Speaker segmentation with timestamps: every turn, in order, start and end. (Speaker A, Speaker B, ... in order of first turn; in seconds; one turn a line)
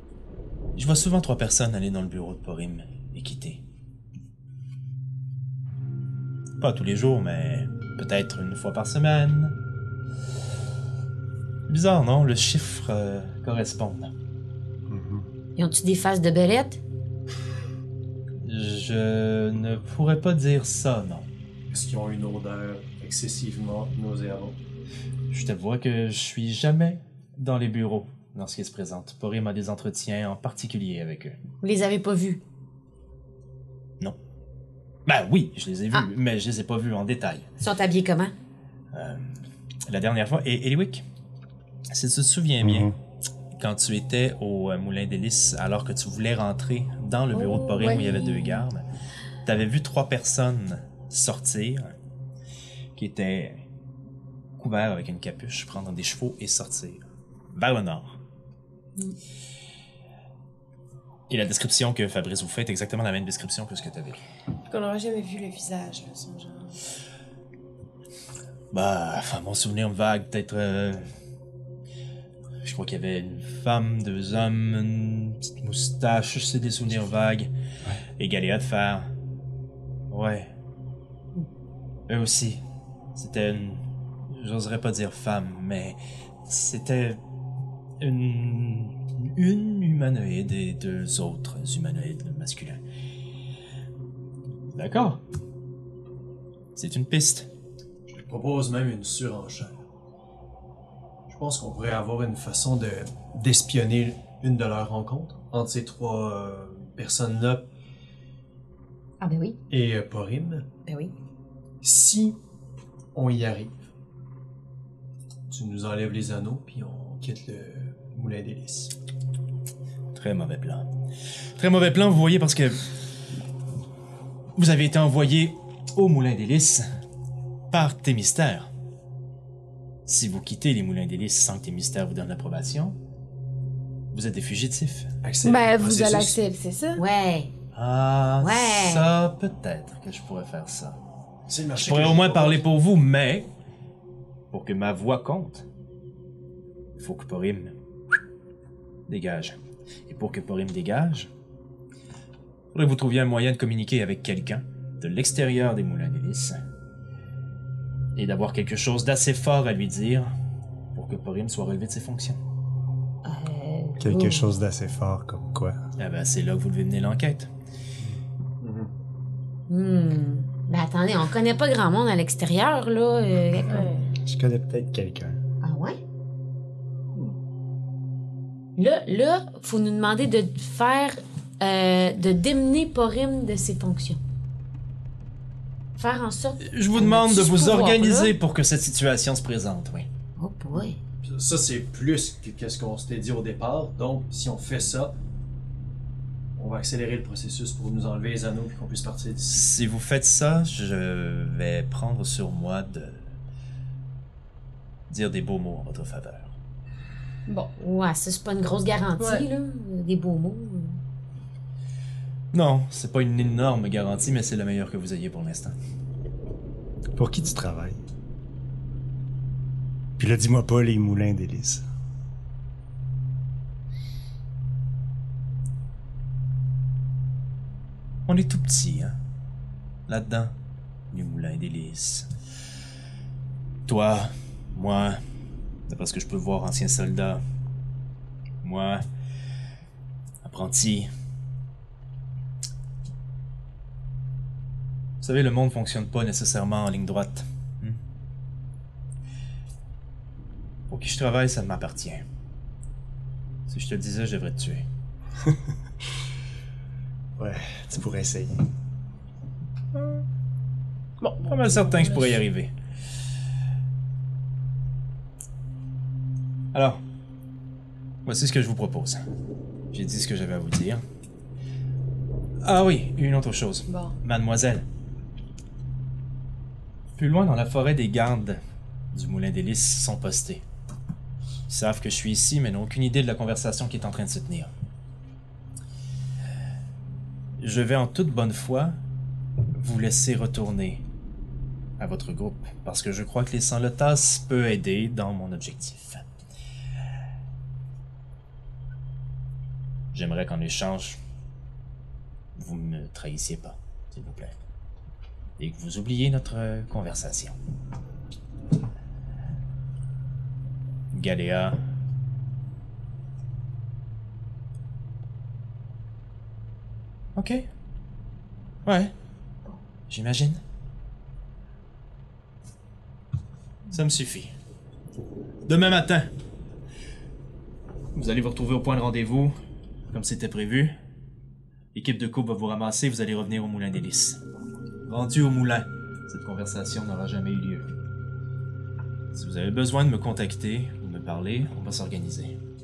Speaker A: 0.8-3.6
Speaker A: 6.6-9.6
Speaker A: 11.7-14.1
Speaker B: 14.9-15.2
Speaker C: 15.6-16.8
Speaker A: 18.4-21.2
Speaker D: 21.7-24.6
Speaker A: 25.3-31.4
Speaker C: 31.6-32.4
Speaker A: 35.0-37.5
Speaker C: 37.6-38.3
Speaker A: 38.9-41.0
Speaker A: 41.9-42.9
Speaker B: 42.6-42.9
Speaker A: 43.6-48.8
Speaker E: 47.3-48.6
Speaker A: 49.4-51.9
Speaker A: 53.0-53.6
Speaker A: 54.6-57.0
Speaker A: 57.5-58.2
Speaker A: 61.3-64.2
Speaker E: 64.7-66.7
Speaker A: 68.7-71.0
Speaker A: 72.6-77.5
Speaker A: 78.2-79.1
Speaker A: 80.1-80.5
Speaker A: 82.1-82.6
Speaker A: 83.1-87.2
Speaker A: 88.0-92.8
Speaker A: 94.7-95.2
Speaker A: 96.7-97.5
Speaker D: 98.1-99.8
Speaker D: 101.3-107.7
Speaker C: 109.2-109.6
Speaker D: 109.7-110.7
Speaker C: 110.8-111.1
Speaker D: 111.8-112.4
Speaker D: 113.1-113.7
Speaker D: 115.5-118.9
Speaker A: 120.1-120.9
Speaker A: 121.6-122.9
Speaker A: 124.5-126.8
Speaker A: 127.7-128.7
Speaker A: 130.1-132.9
Speaker A: 134.1-135.1
Speaker D: 135.2-136.4
Speaker E: 135.4-137.0
Speaker C: 136.9-137.5
Speaker A: 137.7-141.0
Speaker C: 138.4-139.1
Speaker D: 141.5-142.6
Speaker A: 141.8-143.5
Speaker A: 144.5-145.7
Speaker A: 147.0-147.7
Speaker A: 149.1-151.3
Speaker A: 152.7-156.6
Speaker A: 158.2-160.3
Speaker A: 160.9-162.4
Speaker C: 163.2-164.5
Speaker B: 164.0-165.8
Speaker A: 166.0-167.5
Speaker D: 168.6-168.9
Speaker C: 169.7-173.9
Speaker E: 173.7-174.1
Speaker B: 174.1-175.4
Speaker C: 175.6-176.0
Speaker C: 178.8-184.2
Speaker C: 186.0-188.3
Speaker A: 186.6-190.1
Speaker C: 190.4-191.0
Speaker D: 191.2-195.1
Speaker D: 196.6-199.6
Speaker A: 199.5-203.2
Speaker A: 205.1-206.5
Speaker E: 207.5-207.7
Speaker C: 207.8-211.0
Speaker E: 209.2-209.4
Speaker A: 212.5-215.7
Speaker B: 217.2-218.0
Speaker B: 220.2-221.8
Speaker A: 228.3-229.2
Speaker A: 230.1-230.5
Speaker A: 231.1-232.3
Speaker A: 233.9-235.2
Speaker A: 235.9-237.4
Speaker A: 238.6-239.0
Speaker A: 240.4-241.1
Speaker A: 245.2-248.0
Speaker A: 250.9-252.2
Speaker A: 253.7-254.8
Speaker B: 257.4-258.6
Speaker E: 261.2-262.4
Speaker A: 261.4-262.7
Speaker A: 266.7-267.0
Speaker A: 268.2-269.2
Speaker A: 269.9-271.0
Speaker A: 272.6-274.8
Speaker E: 273.9-274.1
Speaker A: 277.2-278.6
Speaker A: 279.1-280.6
Speaker A: 281.7-284.7
Speaker A: 287.6-288.9
Speaker A: 289.7-291.0
Speaker A: 292.0-296.2
Speaker A: 300.1-301.2
Speaker A: 302.6-304.6
Speaker A: 305.6-307.5
Speaker A: 311.1-311.8
Speaker A: 317.4-317.6
Speaker A: 318.9-319.1
Speaker A: 320.1-320.6
Speaker A: 323.9-324.5
Speaker A: 325.6-326.3
Speaker A: 328.1-329.5
Speaker A: 330.1-330.9
Speaker A: 331.9-334.4
Speaker A: 335.1-337.9
Speaker A: 339.3-342.5